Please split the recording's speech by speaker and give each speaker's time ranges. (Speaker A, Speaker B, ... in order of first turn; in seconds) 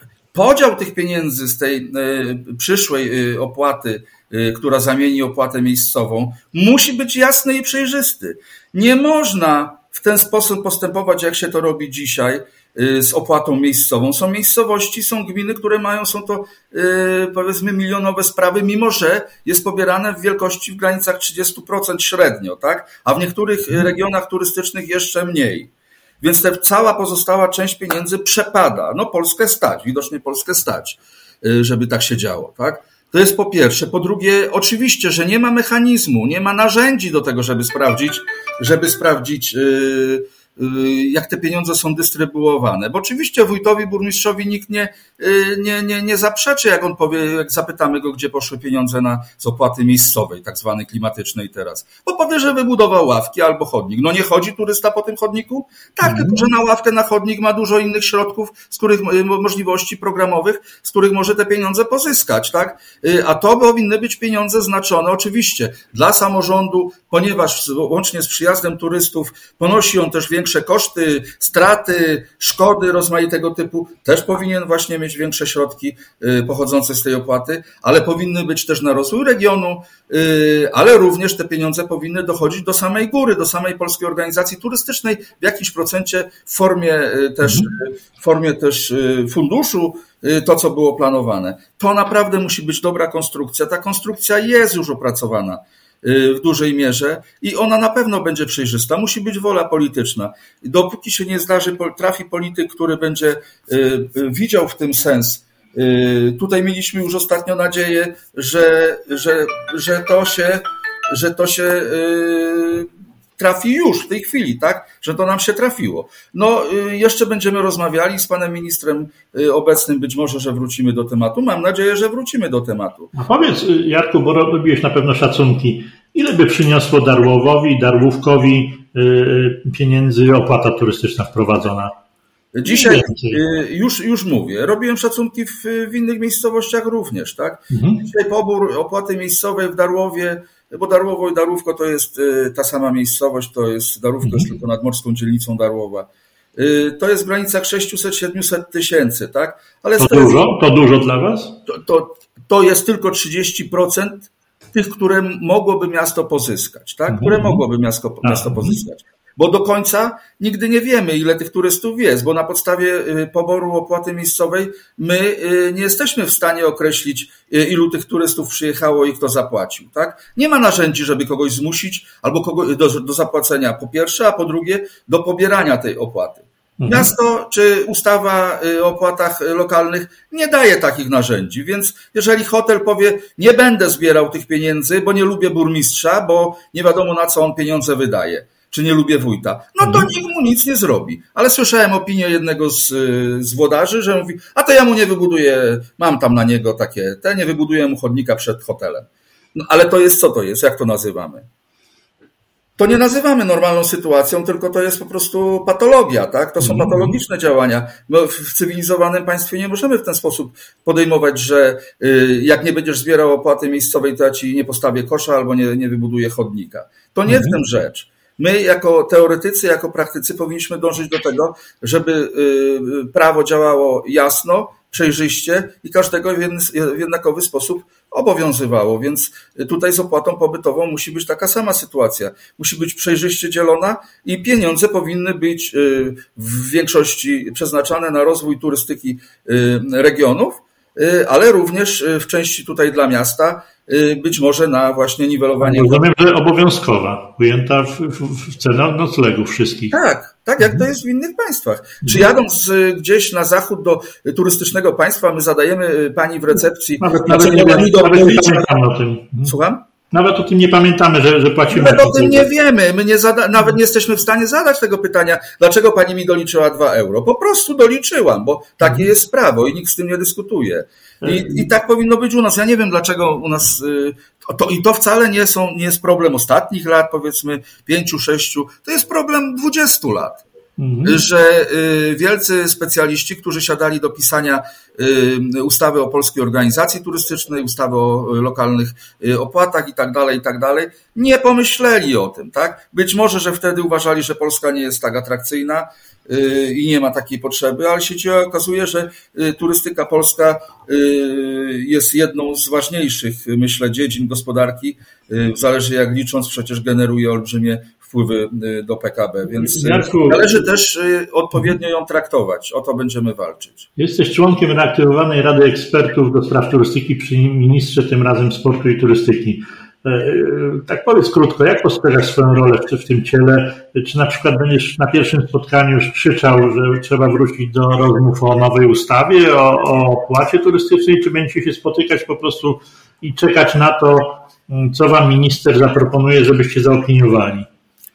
Speaker A: 0.3-123.1, 132.5-150.5, 151.7-201.4, 202.8-246.0, 249.9-258.7, 259.4-259.8, 261.7-280.4, 281.1-313.9
Speaker B: 56.0-56.4, 123.1-131.9, 132.7-133.4, 137.7-138.1, 150.0-151.6, 157.1-157.6, 158.2-158.7, 176.8-177.1, 189.8-190.1, 206.6-207.1, 217.3-217.6, 245.6-249.9, 257.0-259.5, 260.1-262.5, 271.2-271.7, 280.8-281.2, 309.6-310.6, 314.0-337.6